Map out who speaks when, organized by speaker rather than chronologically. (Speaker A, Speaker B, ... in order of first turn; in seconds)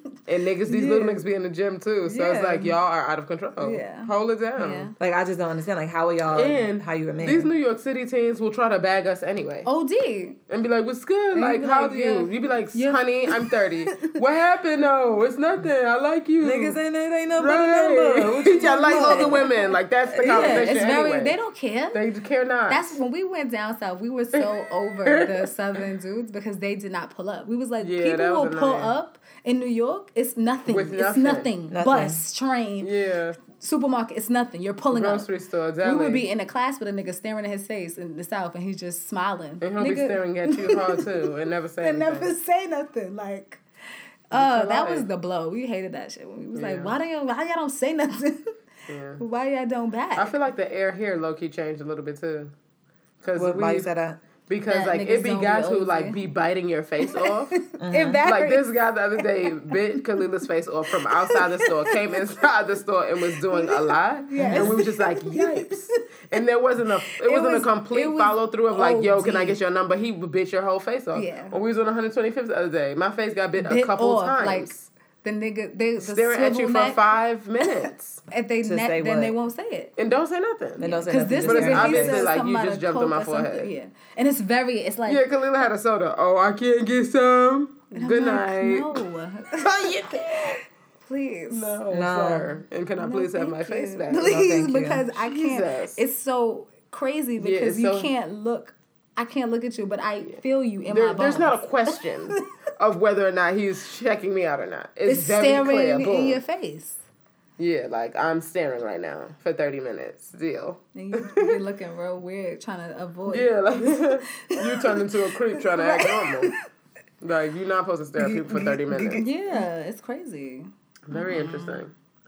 Speaker A: 0.3-4.9, 6.3-9.7, 10.5-16.8, 17.4-21.4, 21.9-23.0, 25.0-25.5, 27.8-28.9, 30.7-31.5, 32.8-33.4, 34.9-36.2, 39.6-42.3, 44.3-45.1, 46.5-46.9, 48.9-49.2, 50.1-52.5, 53.2-53.9, 54.5-57.5, 58.2-74.9, 76.0-78.2, 80.0-80.9, 81.5-83.7, 85.1-88.9, 91.5-94.4, 95.2-96.0, 97.4-98.1, 100.9-106.4, 107.6-111.6, 113.3-116.5, 117.2-119.2, 121.1-121.9
Speaker B: 0.7-1.2, 2.0-2.8, 3.6-4.9, 9.6-10.4, 11.3-14.2, 18.6-22.0, 22.7-32.9, 33.5-35.2, 35.8-41.1, 41.8-43.6, 44.3-48.5, 49.2-50.3, 54.7-56.2, 57.1-59.2, 61.0-62.0, 63.5-66.4, 67.1-69.6, 71.1-71.6, 73.6-77.1, 78.3-79.9, 80.8-85.2, 87.9-91.8, 93.0-102.4, 105.1-107.0, 110.9-116.6, 119.2-121.9
Speaker C: 5.0-7.5, 16.4-19.5, 20.3-20.6, 31.7-32.2, 53.3-54.2, 57.8-58.2, 64.4-64.8, 78.6-79.3, 80.8-82.3, 91.9-92.5, 94.3-95.1, 118.2-119.3